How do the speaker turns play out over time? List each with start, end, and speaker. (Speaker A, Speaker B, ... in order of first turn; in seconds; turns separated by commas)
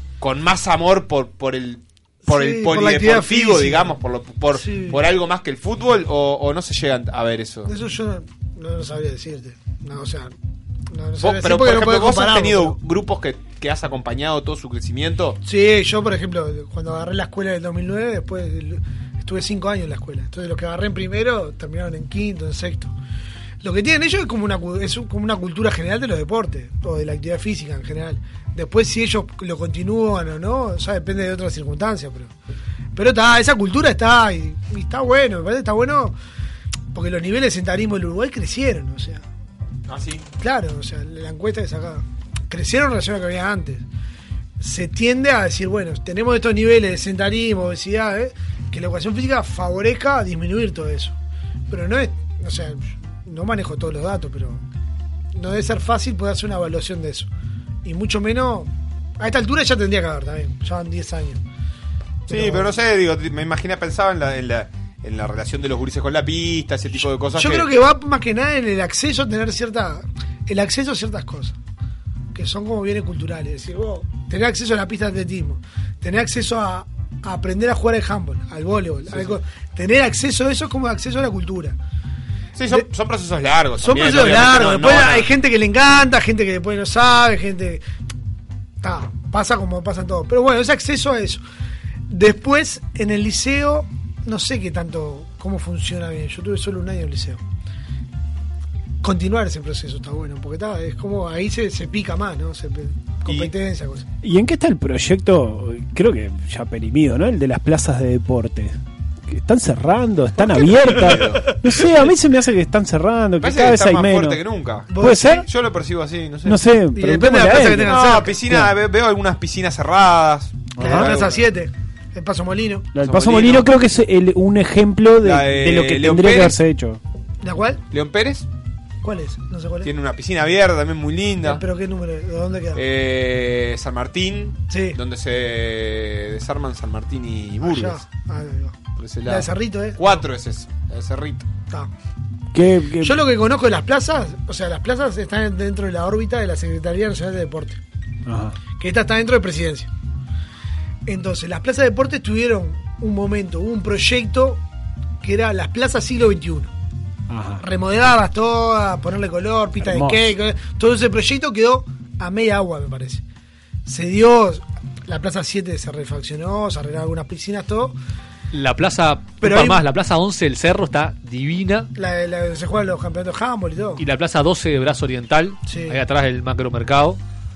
Speaker A: 0.2-7.7, Speaker B: 2.3-4.0, Speaker B: 4.5-5.0, Speaker B: 7.7-10.3, Speaker B: 10.9-12.8, Speaker A: 11.2-15.4, Speaker B: 15.4-22.9, Speaker B: 23.6-32.3, Speaker B: 33.0-36.2, Speaker B: 36.9-39.2, Speaker A: 39.9-40.3, Speaker B: 40.4-43.9, Speaker B: 44.6-51.2, Speaker B: 51.7-54.6, Speaker B: 55.4-57.3, Speaker B: 57.9-61.4, Speaker B: 62.3-62.7, Speaker A: 62.3-67.7, Speaker B: 67.3-71.6, Speaker B: 72.3-81.8, Speaker A: 82.6-85.3, Speaker B: 83.8-87.8, Speaker B: 88.8-91.4, Speaker B: 92.1-97.4, Speaker B: 99.0-104.1, Speaker A: 103.3-103.5, Speaker C: 104.2-114.4, Speaker B: 110.4-111.2, Speaker A: 110.7-111.5, Speaker B: 111.7-112.0, Speaker A: 113.4-116.6, Speaker B: 114.9-115.5, Speaker C: 115.0-115.4, Speaker C: 116.5-118.7, Speaker B: 117.0-118.4, Speaker A: 117.8-121.5, Speaker C: 120.8-121.1, Speaker B: 120.8-123.0, Speaker C: 122.9-127.0, Speaker A: 123.0-123.7, Speaker A: 125.2-126.5, Speaker B: 127.4-127.8, Speaker A: 127.9-128.5, Speaker B: 129.0-129.9, Speaker A: 129.8-131.6, Speaker B: 131.4-132.8, Speaker A: 132.8-138.0, Speaker B: 134.7-135.0, Speaker B: 137.6-140.2, Speaker A: 139.0-141.5, Speaker C: 142.5-143.2, Speaker B: 143.0-147.8, Speaker C: 148.3-148.6, Speaker B: 148.7-149.9, Speaker B: 151.1-154.6, Speaker B: 155.2-156.7, Speaker C: 157.3-157.6, Speaker B: 157.6-163.2, Speaker C: 159.8-160.3, Speaker B: 163.9-168.0, Speaker D: 168.5-171.9, Speaker B: 169.4-169.8, Speaker B: 171.9-174.1, Speaker D: 174.0-177.2, Speaker B: 175.7-176.0